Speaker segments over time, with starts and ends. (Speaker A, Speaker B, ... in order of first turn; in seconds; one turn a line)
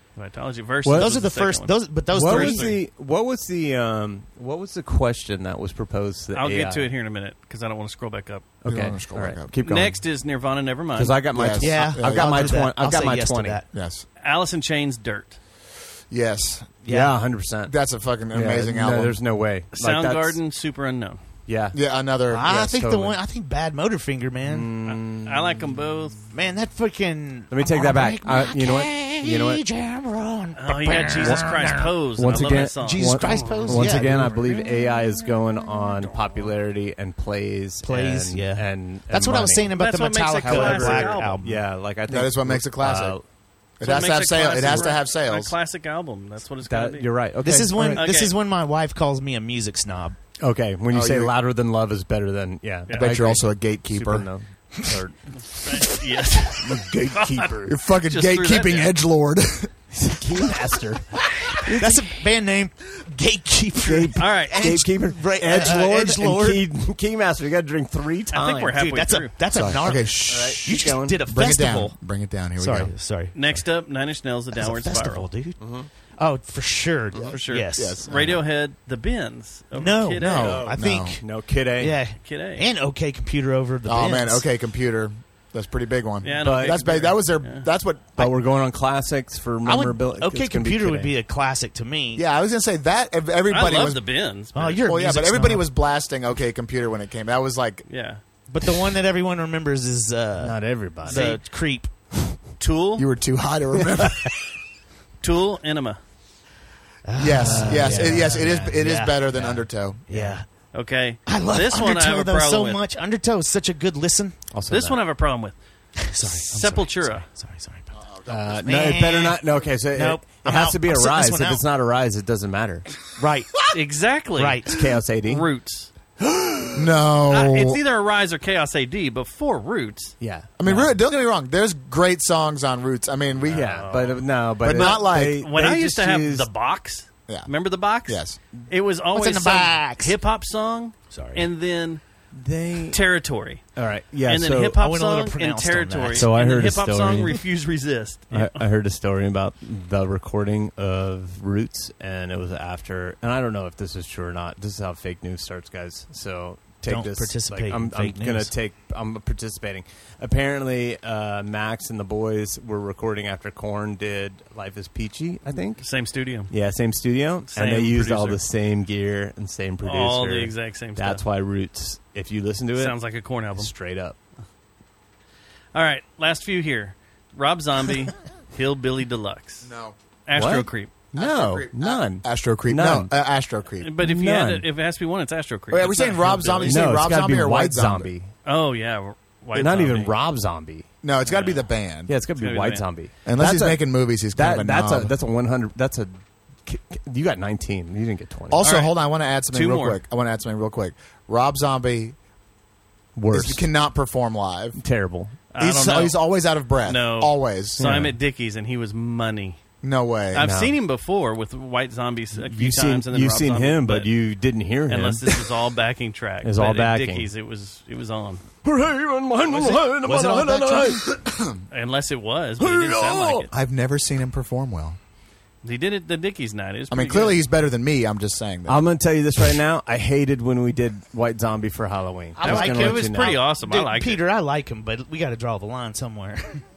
Speaker A: 0.1-2.8
Speaker B: 0.8-1.1
Speaker C: 0.9-2.7
Speaker B: 2.1-6.9
Speaker A: 6.3-8.5
Speaker B: 8.6-9.9
Speaker D: 8.6-9.6
Speaker A: 9.6-11.2
Speaker B: 10.9-13.6
Speaker D: 11.3-12.7
Speaker C: 11.6-13.7
Speaker D: 13.7-14.0
Speaker A: 14.2-15.4
Speaker D: 16.1-16.8
Speaker C: 16.8-17.1
Speaker B: 16.9-17.7
Speaker D: 17.6-19.2
Speaker B: 18.3-20.4
Speaker A: 19.7-21.2
Speaker B: 21.4-21.8
Speaker D: 21.7-22.6
Speaker C: 22.3-24.7
Speaker B: 22.4-23.2
Speaker B: 24.4-25.9
Speaker A: 24.9-26.3
Speaker C: 26.3-31.5
Speaker B: 27.5-29.6
Speaker A: 30.6-33.6
Speaker B: 30.8-39.8
Speaker C: 32.8-34.5
Speaker C: 37.8-41.6
Speaker A: 39.7-41.4
Speaker B: 40.4-43.2
Speaker D: 42.1-43.2
Speaker D: 43.8-45.5
Speaker A: 43.8-47.1
Speaker B: 44.6-44.9
Speaker B: 46.6-48.0
Speaker C: 47.4-50.2
Speaker A: 48.0-48.3
Speaker B: 50.4-55.2
Speaker D: 50.9-51.3
Speaker D: 52.9-54.3
Speaker A: 55.5-58.9
Speaker B: 56.6-57.7
Speaker D: 57.6-59.7
Speaker B: 59.9-62.0
Speaker C: 61.5-66.6
Speaker B: 63.8-68.8
Speaker A: 64.2-64.8
Speaker A: 68.3-69.3
Speaker C: 68.7-72.0
Speaker D: 69.5-72.9
Speaker B: 69.8-71.2
Speaker C: 72.6-73.3
Speaker A: 73.3-75.3
Speaker C: 74.5-75.6
Speaker B: 75.6-75.9
Speaker C: 76.2-78.0
Speaker A: 77.3-80.6
Speaker D: 77.7-78.5
Speaker C: 79.7-81.2
Speaker D: 80.2-81.2
Speaker B: 80.3-82.0
Speaker C: 81.8-84.5
Speaker A: 82.2-82.6
Speaker D: 83.8-88.3
Speaker A: 86.2-87.7
Speaker B: 86.4-87.0
Speaker B: 88.2-91.1
Speaker C: 89.6-92.2
Speaker D: 92.2-94.0
Speaker A: 93.5-94.8
Speaker C: 94.5-95.7
Speaker D: 94.8-97.8
Speaker A: 97.9-98.2
Speaker C: 98.5-101.9
Speaker B: 100.4-101.3
Speaker A: 101.0-101.4
Speaker A: 102.6-103.1
Speaker D: 103.0-104.3
Speaker A: 105.2-106.0
Speaker C: 107.0-110.5
Speaker D: 107.2-110.0
Speaker B: 107.4-108.4
Speaker B: 110.1-110.3
Speaker A: 110.7-112.8
Speaker C: 111.2-114.4
Speaker B: 114.5-115.0
Speaker A: 114.7-115.5
Speaker C: 116.0-117.9
Speaker A: 116.2-117.2
Speaker D: 117.9-119.0
Speaker B: 118.3-122.9
Speaker C: 118.6-121.6
Speaker C: 123.2-123.6
Speaker A: 123.7-124.7
Speaker C: 124.3-124.8
Speaker B: 124.6-125.5
Speaker A: 125.2-125.9
Speaker D: 126.7-127.8
Speaker A: 127.3-130.2
Speaker B: 130.2-130.9
Speaker D: 130.6-133.9
Speaker B: 133.4-136.5
Speaker A: 133.5-142.0
Speaker D: 134.6-135.4
Speaker D: 138.0-138.4
Speaker C: 139.1-140.1
Speaker C: 141.1-141.4
Speaker B: 142.3-143.0
Speaker A: 142.9-143.6
Speaker B: 143.8-144.8
Speaker A: 144.2-148.6
Speaker C: 144.8-146.3
Speaker B: 146.2-147.4
Speaker B: 148.3-165.8
Speaker C: 156.8-158.5
Speaker A: 165.8-166.5
Speaker B: 166.5-172.9
Speaker A: 167.5-168.4
Speaker A: 169.8-171.2
Speaker A: 172.8-173.7
Speaker B: 173.5-174.2
Speaker A: 175.7-179.7
Speaker D: 179.6-179.9
Speaker A: 180.3-180.9
Speaker B: 180.3-183.1
Speaker D: 181.1-183.9
Speaker A: 183.8-186.9
Speaker B: 184.0-184.6
Speaker D: 185.7-188.1
Speaker B: 186.6-188.3
Speaker A: 188.4-190.1
Speaker B: 189.5-190.8
Speaker D: 191.0-192.1
Speaker A: 191.3-191.6
Speaker B: 192.1-198.6
Speaker A: 192.4-192.9
Speaker D: 193.2-195.1
Speaker D: 198.5-202.2
Speaker A: 198.6-198.9
Speaker A: 199.5-200.0
Speaker B: 203.2-203.6
Speaker D: 203.3-204.8
Speaker B: 204.8-205.4
Speaker A: 205.5-206.2
Speaker D: 205.5-208.0
Speaker A: 206.8-209.6
Speaker B: 207.8-208.1
Speaker D: 209.8-210.5
Speaker A: 210.3-214.1
Speaker B: 210.4-210.7
Speaker B: 212.3-215.5
Speaker A: 214.9-218.4
Speaker B: 216.4-217.3
Speaker B: 218.6-221.2
Speaker A: 219.5-219.8
Speaker C: 220.0-221.0
Speaker D: 221.2-221.6
Speaker A: 221.7-223.5
Speaker B: 222.6-223.5
Speaker D: 223.5-225.0
Speaker A: 225.6-227.4
Speaker D: 226.9-228.9
Speaker B: 228.7-233.4
Speaker C: 232.4-236.6
Speaker A: 232.4-234.2